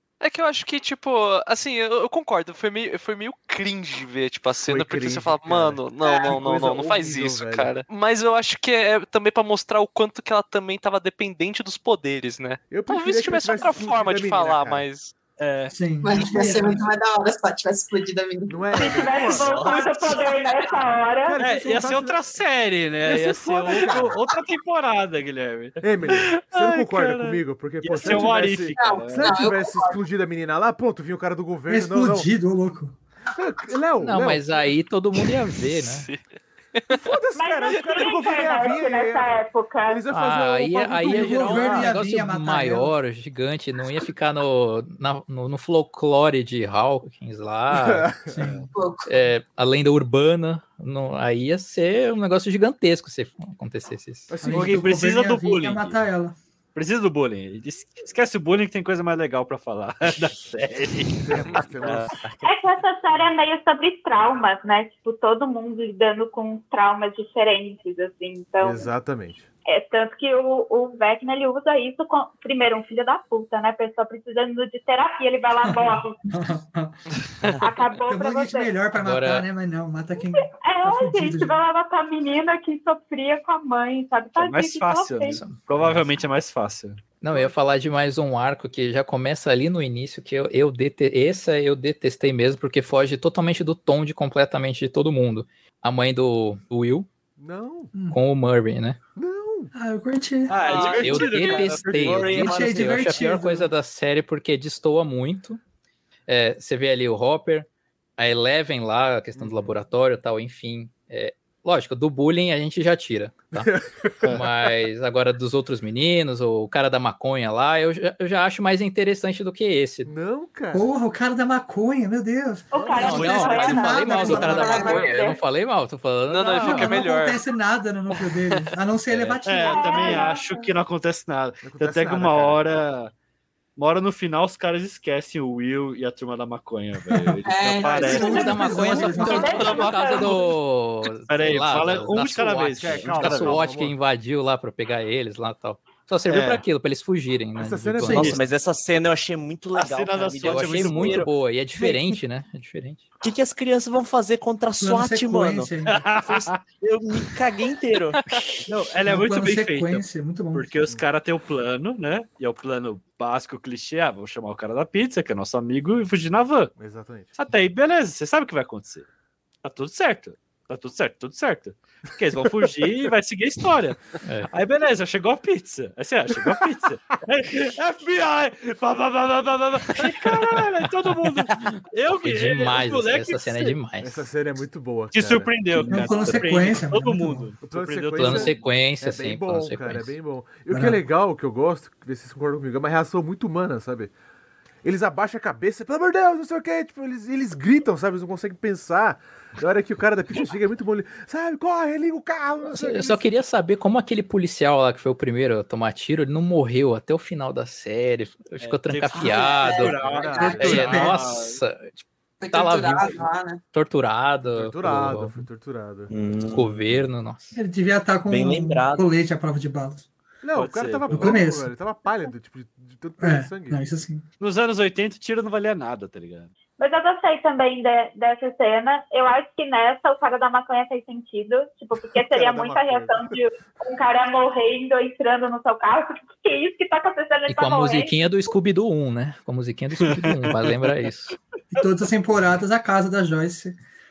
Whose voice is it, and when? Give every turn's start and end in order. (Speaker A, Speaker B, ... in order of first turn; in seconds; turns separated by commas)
Speaker A: 0.2-15.1, Speaker B: 4.6-7.7, Speaker C: 6.0-6.3, Speaker B: 12.7-14.8, Speaker D: 15.4-15.7, Speaker E: 15.7-16.9, Speaker C: 16.0-18.6, Speaker B: 18.5-19.8, Speaker F: 18.7-21.4, Speaker G: 19.3-20.2, Speaker B: 21.2-22.4, Speaker D: 21.4-29.3, Speaker B: 23.0-24.2, Speaker B: 25.8-32.3, Speaker C: 28.8-30.0, Speaker E: 31.7-33.0, Speaker B: 33.3-34.5, Speaker H: 34.0-36.1, Speaker A: 35.6-37.0, Speaker B: 36.9-42.0, Speaker F: 37.4-40.1, Speaker H: 40.1-48.1, Speaker E: 41.0-42.9, Speaker B: 47.7-48.4, Speaker E: 48.3-48.7, Speaker C: 48.7-49.1, Speaker H: 49.1-54.3, Speaker B: 54.3-54.9, Speaker E: 54.4-56.4, Speaker D: 54.5-56.0, Speaker D: 56.8-62.1, Speaker B: 61.3-62.5, Speaker G: 62.0-62.3, Speaker F: 62.4-68.9, Speaker B: 68.6-69.5, Speaker F: 69.7-76.2, Speaker E: 75.7-77.0, Speaker F: 77.6-78.8, Speaker E: 78.1-81.6, Speaker H: 79.0-79.5, Speaker F: 80.3-85.4, Speaker D: 84.4-87.0, Speaker H: 85.3-86.1, Speaker H: 87.2-97.1, Speaker B: 97.4-97.9, Speaker E: 97.9-98.2, Speaker H: 98.1-99.0, Speaker B: 99.2-99.7, Speaker E: 99.8-100.7, Speaker D: 100.5-102.4, Speaker G: 100.7-103.0, Speaker C: 100.8-101.0, Speaker H: 101.0-105.6, Speaker E: 102.3-103.7, Speaker H: 106.3-113.7, Speaker B: 109.3-109.7, Speaker B: 113.6-114.4, Speaker H: 114.3-120.1, Speaker B: 120.0-120.9, Speaker E: 120.7-125.1, Speaker F: 122.7-125.4, Speaker H: 123.0-127.0, Speaker C: 124.5-125.1, Speaker A: 126.3-127.4, Speaker E: 126.6-130.3, Speaker A: 128.2-128.7, Speaker H: 129.1-129.4, Speaker D: 129.4-133.1, Speaker F: 129.6-130.6, Speaker B: 131.6-132.7, Speaker D: 133.8-138.6, Speaker C: 137.4-138.6, Speaker H: 137.9-148.4, Speaker E: 138.0-139.8, Speaker F: 138.1-140.6, Speaker D: 141.3-143.6, Speaker B: 142.8-144.0, Speaker D: 146.3-146.6, Speaker B: 147.6-148.4, Speaker G: 148.1-151.3, Speaker D: 149.8-151.3, Speaker H: 150.4-153.0, Speaker G: 153.2-158.2, Speaker E: 154.8-156.1, Speaker D: 155.9-156.6, Speaker D: 158.7-166.7, Speaker E: 159.1-160.7, Speaker B: 166.8-167.3, Speaker D: 167.3-169.1, Speaker D: 169.6-183.8, Speaker H: 174.2-174.5, Speaker H: 182.1-184.3, Speaker B: 184.0-186.4, Speaker D: 185.1-188.6, Speaker E: 185.8-187.5, Speaker B: 187.6-194.1, Speaker H: 188.2-190.2, Speaker E: 190.7-191.0, Speaker B: 194.8-203.3, Speaker H: 202.7-210.0, Speaker D: 208.6-211.6, Speaker C: 209.2-210.7, Speaker B: 210.0-211.1, Speaker E: 210.4-211.2, Speaker H: 210.6-215.4, Speaker C: 212.4-213.6, Speaker B: 214.4-216.1, Speaker G: 216.1-216.8, Speaker H: 216.5-217.6, Speaker E: 217.5-220.1, Speaker G: 218.3-219.1, Speaker B: 220.4-223.9, Speaker D: 220.6-221.4, Speaker E: 221.1-221.7, Speaker E: 223.2-224.2, Speaker D: 224.4-226.5, Speaker F: 226.8-238.2, Speaker B: 232.2-233.4, Speaker H: 237.5-241.4, Speaker D: 240.0-240.9, Speaker E: 241.7-243.8